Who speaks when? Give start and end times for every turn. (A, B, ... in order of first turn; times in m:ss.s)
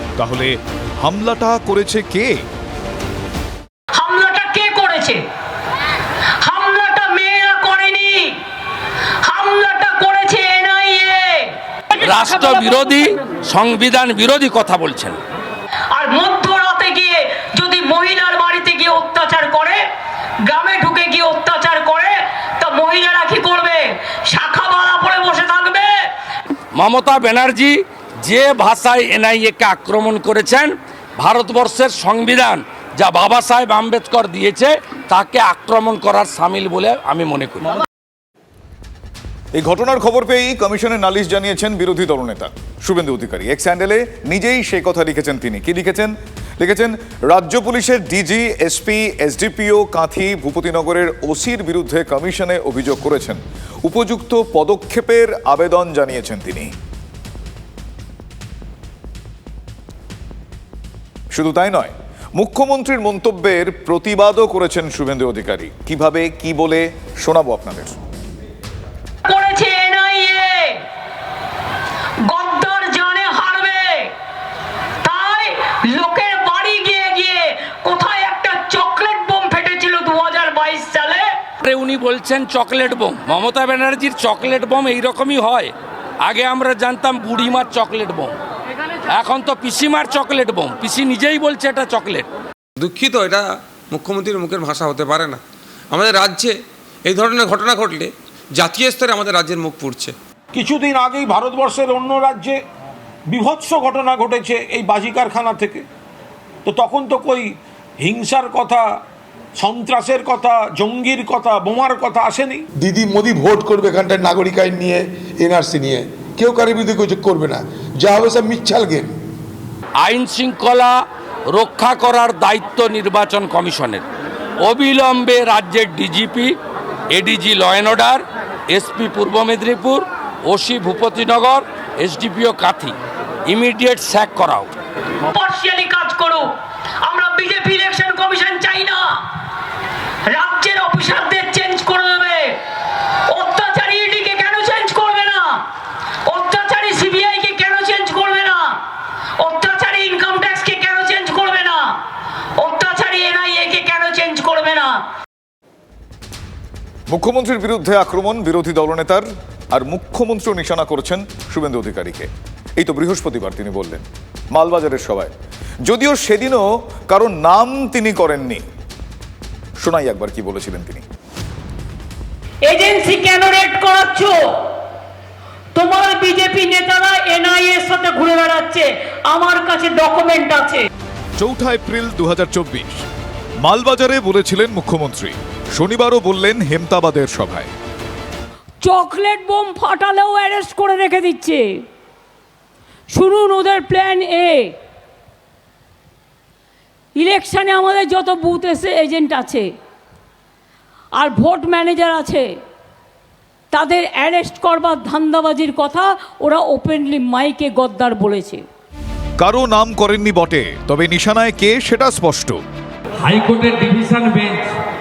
0:00.2-0:02.4 A
0:03.9-0:05.2 B
0:06.4-0:08.4 B
0:09.2-0:11.6 B
0:12.0-0:15.2 C
0:15.9-0:19.8 B
0:20.5-0:25.9 B
0:26.8-0:37.8 C
0:39.6-0:56.7 A
1:01.3-1:08.0 A
1:09.2-1:10.8 B
1:12.2-1:14.1 B
1:15.0-1:21.3 B
1:21.6-1:25.7 C
1:26.2-1:28.3 C
1:29.1-1:32.3 C
1:32.8-1:35.4 D
1:35.9-1:40.1 D
1:40.5-1:42.6 E
1:43.3-1:45.8 E
1:46.6-1:47.5 E
1:48.0-1:48.8 E
1:49.6-1:52.6 E
1:52.8-1:59.1 F
2:00.0-2:04.0 C
2:04.6-2:06.5 C
2:07.1-2:12.9 C
2:13.5-2:14.7 C
2:15.3-2:16.5 B
2:17.0-2:19.1 B
2:20.3-2:22.6 B
2:23.3-2:25.6 B
2:26.3-2:28.8 B
2:29.4-2:31.9 B
2:32.6-2:35.0 B
2:37.1-2:45.3 A
2:45.9-2:48.6 A
2:49.8-2:51.0 A
2:52.6-2:54.4 B
2:55.8-3:00.8 B
3:01.4-3:03.0 A
3:03.6-3:07.7 A
3:08.8-3:11.6 B
3:13.1-3:14.8 B
3:17.2-3:19.7 B
3:21.2-3:22.4 B
3:23.7-3:28.6 B
3:29.4-3:32.6 A
3:33.2-3:34.7 C